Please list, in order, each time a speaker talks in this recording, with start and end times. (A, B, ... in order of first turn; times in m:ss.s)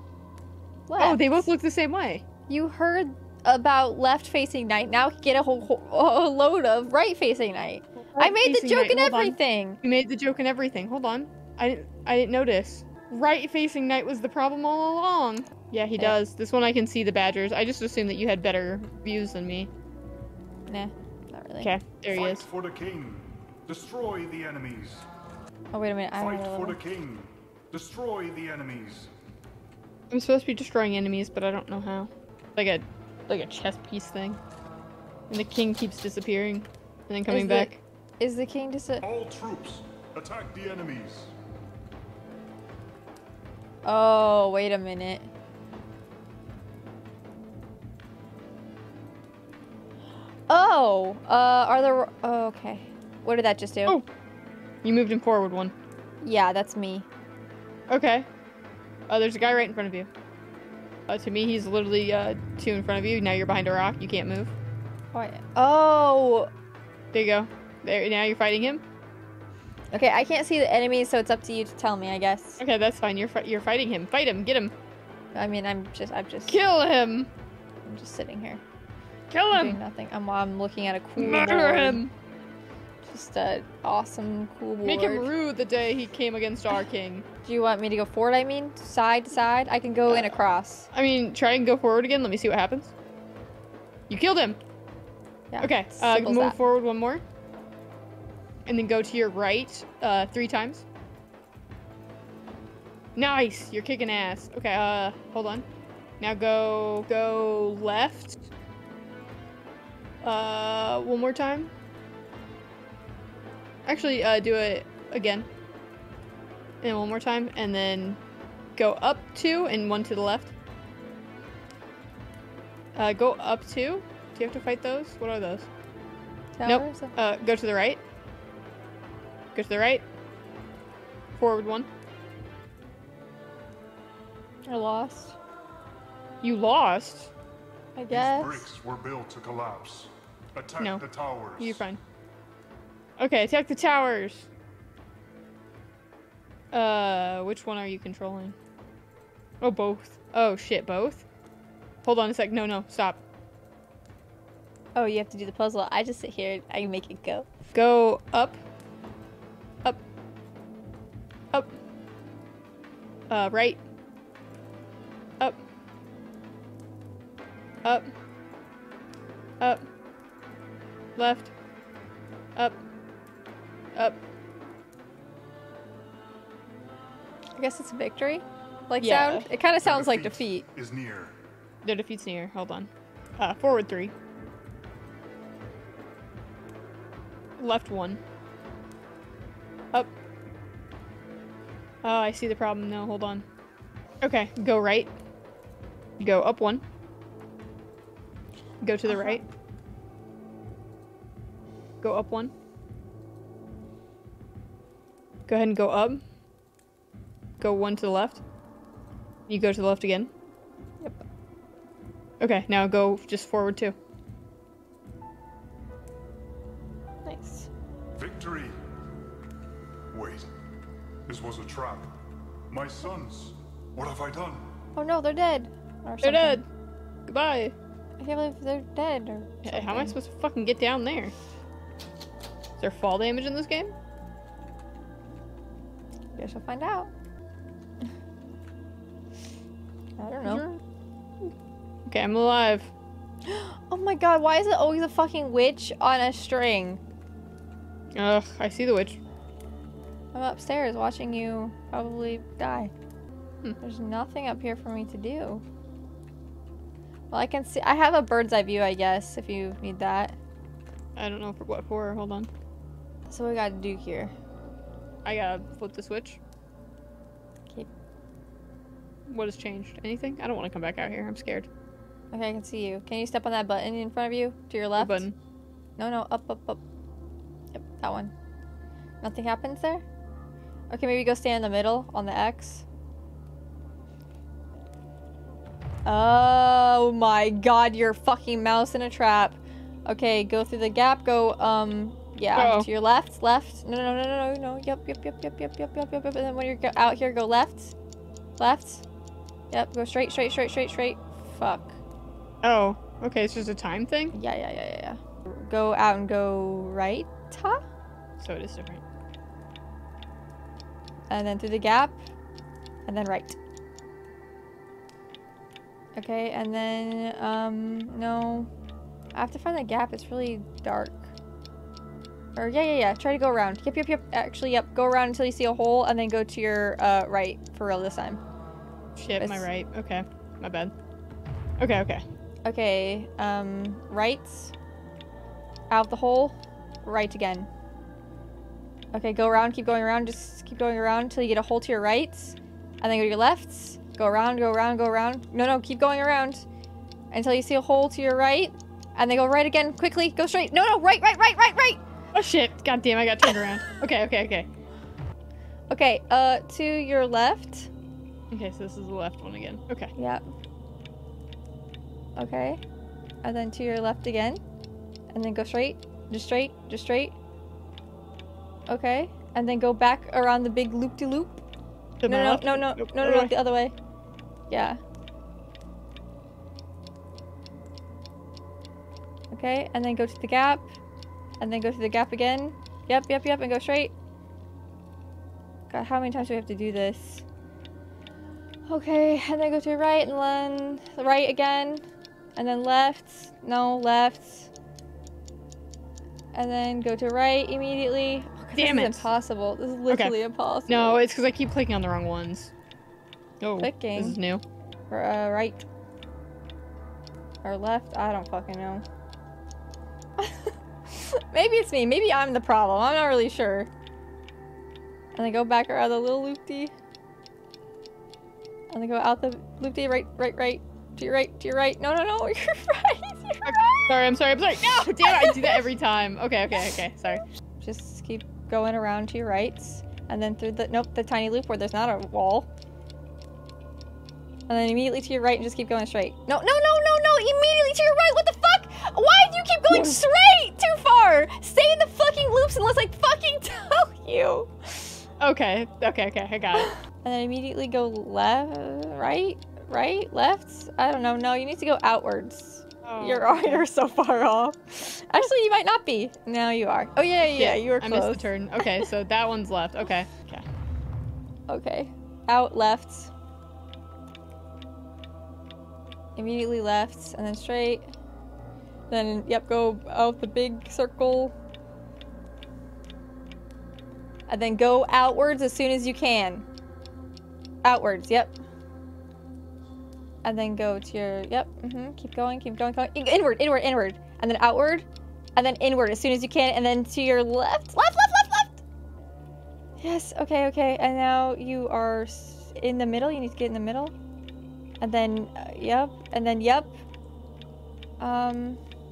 0:00.9-0:01.3 A
0:01.0-0:02.2 B
0:02.5-0:09.8 A
0:08.0-0:19.7 B
0:20.7-0:21.7 A
0:21.6-0:22.4 B
0:22.1-0:25.1 C
0:25.7-0:26.8 A
0:26.2-0:29.1 C
0:30.1-0:34.4 B
0:35.3-0:37.8 B
0:37.3-0:39.0 A
0:39.0-0:41.3 C
0:43.8-0:45.3 A
0:50.5-0:54.0 A
0:54.8-0:55.7 B
0:56.2-0:57.1 A
0:57.9-0:58.3 B
0:59.1-1:00.1 B
1:01.1-1:04.5 B
1:05.1-1:06.5 A
1:07.1-1:08.8 B
1:09.9-1:12.6 A
1:12.6-1:14.7 B
1:15.3-1:16.6 A
1:16.5-1:17.3 B
1:17.8-1:18.6 A
1:19.3-1:19.8 B
1:19.5-1:22.0 A
1:21.2-1:22.1 B
1:23.0-1:25.3 A
1:24.8-1:27.2 B
1:27.4-1:30.9 A
1:30.1-1:32.9 B
1:34.1-1:34.6 B
1:35.5-1:36.6 A
1:35.6-1:37.2 B
1:38.6-1:40.8 B
1:43.1-1:45.6 B
1:46.2-1:48.4 B
1:50.2-1:51.7 B
1:53.8-1:55.5 B
1:56.8-1:58.2 B
1:58.8-2:00.5 B
2:02.9-2:05.7 B
2:06.6-2:07.1 A
2:06.6-2:08.0 B
2:09.5-2:10.0 B
2:11.3-2:11.9 B
2:14.7-2:15.4 A
2:16.4-2:17.3 B
2:17.9-2:18.7 A
2:18.1-2:21.8 C
2:21.6-2:22.0 B
2:23.2-2:24.5 B
2:26.7-2:28.6 B
2:29.6-2:31.2 B
2:32.0-2:33.2 B
2:34.9-2:37.5 A
2:37.7-2:38.6 B
2:43.3-2:43.8 B
2:47.8-2:48.1 B
2:51.2-2:51.5 B
2:57.6-3:00.6 A
2:59.0-2:59.5 B
2:59.8-3:01.3 C
3:01.8-3:04.1 B
3:07.6-3:08.2 B
3:12.0-3:13.4 B
3:14.2-3:15.1 B
3:16.2-3:16.8 B
3:18.8-3:19.4 B
3:19.1-3:19.4 A
3:22.0-3:22.5 B
3:25.5-3:26.2 B
3:27.6-3:28.4 B
3:29.5-3:30.3 B
3:32.4-3:33.9 B
3:37.2-3:37.7 A
3:38.2-3:38.8 C
3:40.1-3:40.5 C
3:41.3-3:42.2 C
3:42.7-3:44.7 C
3:45.0-3:46.6 A
3:46.2-3:46.6 B
3:47.3-3:47.7 B
3:48.2-3:50.1 A
3:49.6-3:51.3 B
3:52.8-3:53.9 B
3:56.3-3:57.1 A
4:00.2-4:00.8 A
4:02.1-4:02.9 B
4:03.4-4:07.0 A
4:08.1-4:09.2 B
4:10.3-4:12.9 A
4:13.8-4:15.6 A
4:17.3-4:20.4 A
4:21.2-4:22.5 B
4:23.3-4:24.3 A
4:25.2-4:26.4 B
4:29.3-4:31.7 B
4:32.3-4:35.2 A
4:35.0-4:35.4 B
4:36.0-4:36.8 A
4:37.7-4:38.3 A
4:39.2-4:40.0 A
4:40.9-4:42.8 A
4:46.0-4:57.9 A
4:52.5-4:52.9 B
4:58.6-4:59.0 A
4:59.7-5:02.0 A
5:02.6-5:04.3 B
5:04.3-5:07.8 A
5:08.4-5:09.0 B
5:11.3-5:12.2 A
5:13.0-5:13.6 A
5:16.2-5:18.7 A
5:19.3-5:21.3 A
5:22.6-5:28.4 A
5:29.2-5:30.9 B
5:29.4-5:29.6 A
5:31.8-5:32.2 B
5:32.6-5:34.7 A
5:35.9-5:37.7 A
5:39.1-5:46.7 A
5:47.3-5:52.0 A
5:52.3-5:54.7 B
5:55.9-5:57.9 A
5:58.5-6:00.1 B
6:00.2-6:00.4 A
6:02.4-6:02.8 A
6:03.4-6:04.6 A
6:05.3-6:07.4 A
6:08.9-6:11.6 A
6:12.2-6:13.5 B
6:12.2-6:13.9 A
6:14.7-6:15.0 A
6:19.5-6:20.9 A
6:21.6-6:24.1 A
6:25.9-6:27.4 A
6:28.9-6:32.0 A
6:32.6-6:34.7 A
6:36.5-6:41.2 A
6:38.7-6:39.3 B
6:40.1-6:40.3 B
6:40.9-6:42.7 B
6:43.6-6:44.6 B
6:43.8-6:44.4 A
6:45.1-6:45.8 A
6:47.6-6:49.0 A
6:50.4-6:53.9 A
6:55.3-6:56.9 A
6:58.9-7:04.2 A
7:03.6-7:07.4 B
7:04.8-7:05.8 A
7:07.8-7:12.7 A
7:14.7-7:25.2 A
7:25.4-7:26.9 B
7:26.8-7:39.1 A
7:33.0-7:33.8 B
7:37.5-7:40.6 B
7:41.7-7:43.3 A
7:46.4-7:48.1 A
7:49.1-7:51.5 A
7:54.5-7:56.6 A
7:57.8-7:58.6 A
8:00.4-8:08.8 A
8:10.0-8:14.1 A
8:15.0-8:16.9 A
8:18.2-8:18.8 A